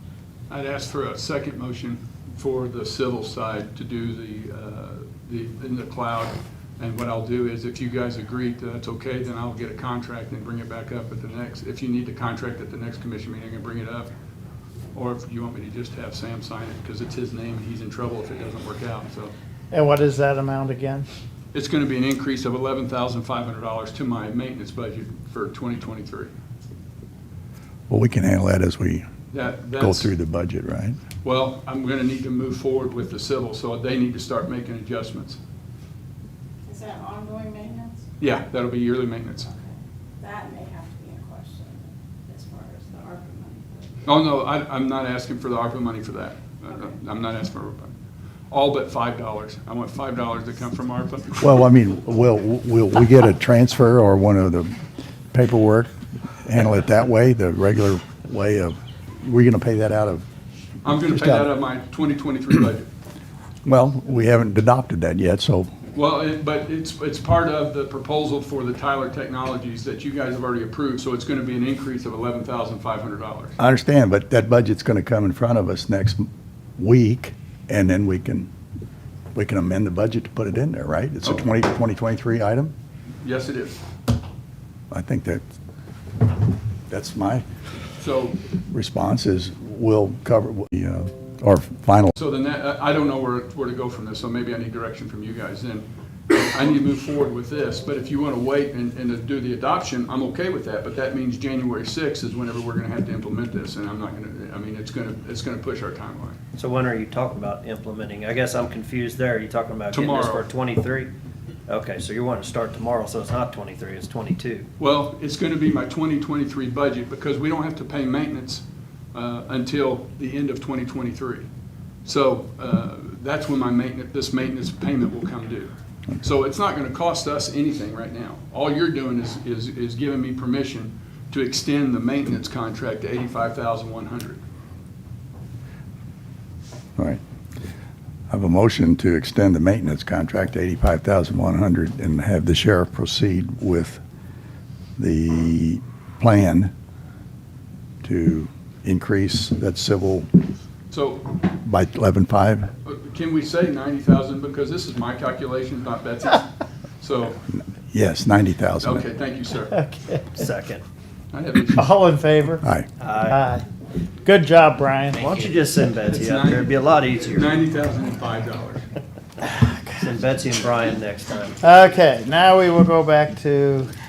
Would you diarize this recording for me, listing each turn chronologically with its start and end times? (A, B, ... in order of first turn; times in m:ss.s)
0:00.5-0:14.1 A
0:14.9-0:19.3 A
0:19.7-0:21.0 B
0:21.5-0:26.3 A
0:27.9-0:29.0 C
0:29.3-0:30.1 A
0:29.8-0:31.0 C
0:31.2-0:35.4 A
0:36.6-0:38.0 D
0:38.2-0:39.5 A
0:39.5-0:44.0 D
0:44.0-0:47.9 A
0:48.5-0:51.4 A
0:51.4-0:54.8 C
0:55.3-0:55.9 C
0:56.4-1:00.2 C
1:00.8-1:02.9 A
1:01.0-1:01.5 C
1:03.6-1:05.7 C
1:05.9-1:13.5 A
1:13.6-1:16.3 C
1:16.8-1:18.5 C
1:19.3-1:22.7 C
1:23.2-1:23.8 A
1:24.9-1:25.4 C
1:26.9-1:27.4 C
1:28.0-1:28.4 A
1:28.7-1:32.1 C
1:32.1-1:46.4 A
1:46.6-1:51.1 E
1:49.9-1:50.5 A
1:51.7-1:54.7 E
1:54.8-2:01.5 A
2:02.0-2:14.4 A
2:18.3-2:24.0 C
2:25.0-2:26.7 C
2:28.0-2:30.3 C
2:30.9-2:31.3 A
2:31.6-2:32.7 C
2:32.8-2:37.4 A
2:37.5-2:39.0 C
2:38.8-2:39.8 A
2:39.8-2:40.1 B
2:40.3-2:40.8 E
2:41.3-2:41.9 A
2:41.8-2:42.6 B
2:43.0-2:43.4 E
2:43.3-2:43.6 B
2:44.2-2:45.2 B
2:45.1-2:47.6 E
2:46.1-2:48.8 A
2:49.5-2:49.9 B
2:50.0-2:51.6 E
2:51.6-2:53.9 B